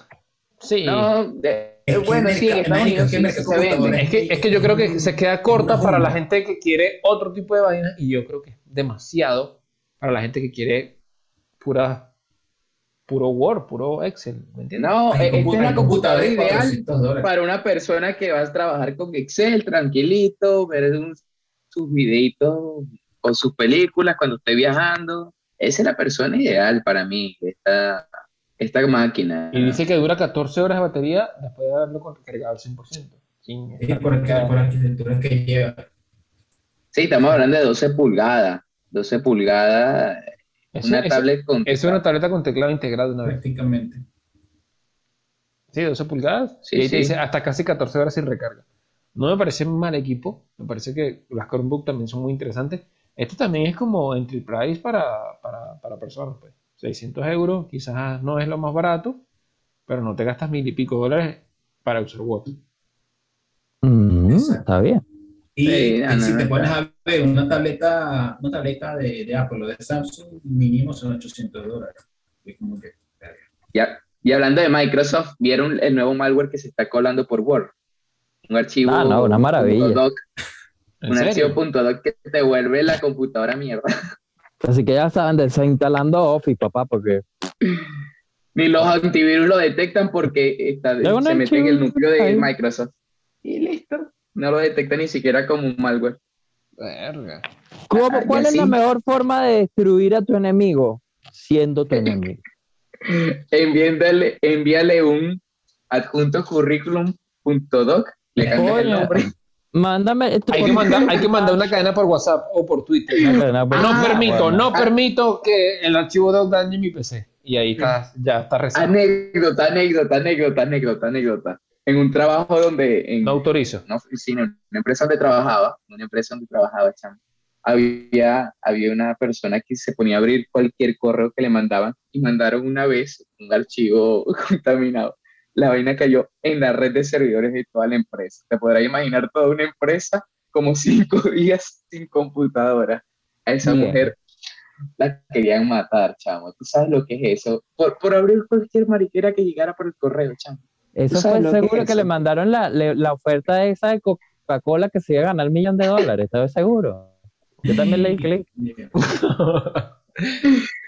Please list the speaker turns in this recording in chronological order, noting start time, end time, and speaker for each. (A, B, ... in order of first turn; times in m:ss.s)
0:00.6-0:01.1 A
0:00.8-0:04.0 B
0:01.9-0:06.2 C
0:04.0-0:11.0 A
0:11.6-0:12.1 A
0:13.1-0:14.9 A
0:14.8-0:28.1 B
0:15.1-0:17.3 C
0:28.6-0:29.8 B
0:29.5-0:34.5 A
0:33.8-0:35.8 C
0:36.9-0:40.2 B
0:40.7-0:43.4 A
0:40.8-0:42.0 B
0:43.2-0:44.0 C
0:45.7-0:48.6 A
0:46.7-0:47.1 B
0:49.1-0:59.2 A
0:59.9-1:02.5 A
1:03.8-1:05.0 D
1:04.3-1:04.6 C
1:05.6-1:13.4 C
1:05.6-1:06.7 B
1:13.7-1:17.7 B
1:18.5-1:20.2 B
1:18.8-1:20.0 D
1:21.0-1:21.6 A
1:21.1-1:23.9 B
1:24.6-1:27.2 D
1:28.5-1:32.9 B
1:31.0-1:32.5 D
1:33.4-1:36.2 B
1:36.8-1:37.4 A
1:37.9-1:42.4 D
1:37.9-1:38.8 B
1:43.0-1:49.3 B
1:48.4-1:51.6 D
1:50.5-1:58.9 A
1:50.6-1:51.1 B
1:53.1-1:54.9 B
1:53.3-1:54.7 D
1:58.7-2:24.2 B
2:03.2-2:03.8 A
2:23.6-2:24.1 D
2:25.0-2:30.6 B
2:31.0-2:37.1 D
2:31.1-2:32.1 B
2:37.6-2:38.9 C
2:37.6-2:38.4 D
2:39.0-2:40.5 A